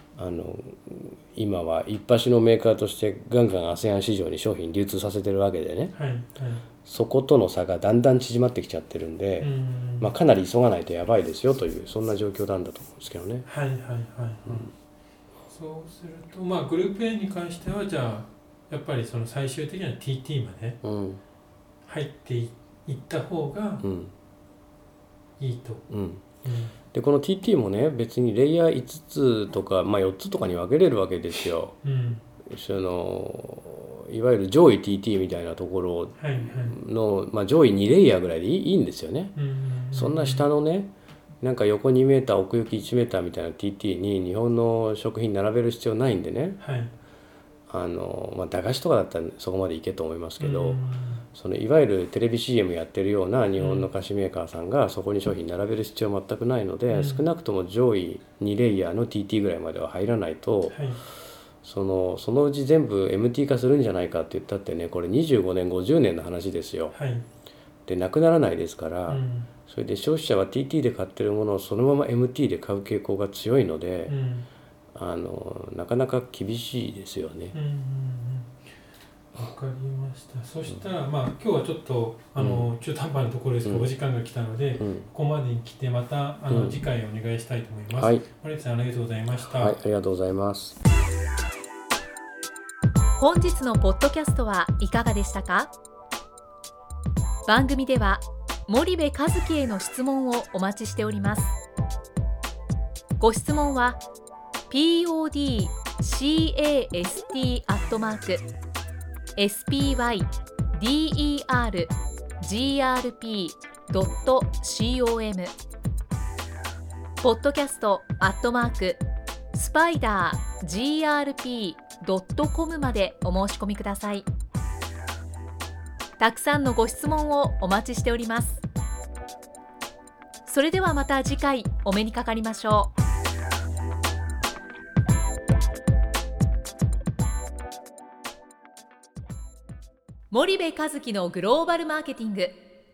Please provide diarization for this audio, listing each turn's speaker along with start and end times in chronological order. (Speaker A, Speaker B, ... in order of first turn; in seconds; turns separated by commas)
Speaker A: 0.1-5.9, Speaker B: 5.9-6.7, Speaker A: 6.8-13.4, Speaker B: 9.4-10.1, Speaker B: 13.4-14.7, Speaker A: 14.4-14.7, Speaker B: 15.5-20.8, Speaker A: 20.8-21.2, Speaker B: 21.9-23.8, Speaker A: 23.8-24.1, Speaker B: 25.4-25.8, Speaker A: 25.9-26.2, Speaker B: 26.4-26.7, Speaker A: 26.9-31.8, Speaker B: 31.8-32.2, Speaker A: 32.5-39.3, Speaker B: 36.1-36.8, Speaker B: 39.3-40.5, Speaker A: 39.9-46.6, Speaker B: 46.6-46.9, Speaker A: 47.7-50.8, Speaker B: 50.4-51.2, Speaker A: 51.3-60.8, Speaker B: 53.6-53.9, Speaker B: 56.9-57.2, Speaker B: 60.7-61.0, Speaker A: 61.6-67.0, Speaker B: 66.9-67.2, Speaker A: 67.8-74.1, Speaker B: 69.1-69.5, Speaker B: 74.0-74.5, Speaker A: 74.9-77.5, Speaker B: 77.5-78.5, Speaker B: 79.3-89.7, Speaker A: 82.4-82.7, Speaker A: 83.6-83.9, Speaker A: 84.8-85.1, Speaker A: 86.5-86.8, Speaker A: 87.9-88.3, Speaker A: 89.4-90.8, Speaker C: 93.2-95.7, Speaker C: 97.5-101.6, Speaker C: 103.2-104.0, Speaker C: 104.7-108.4, Speaker C: 109.3-115.5, Speaker C: 117.2-119.0, Speaker C: 119.5-124.3, Speaker C: 126.2-128.6, Speaker C: 130.4-132.9, Speaker C: 140.3-142.6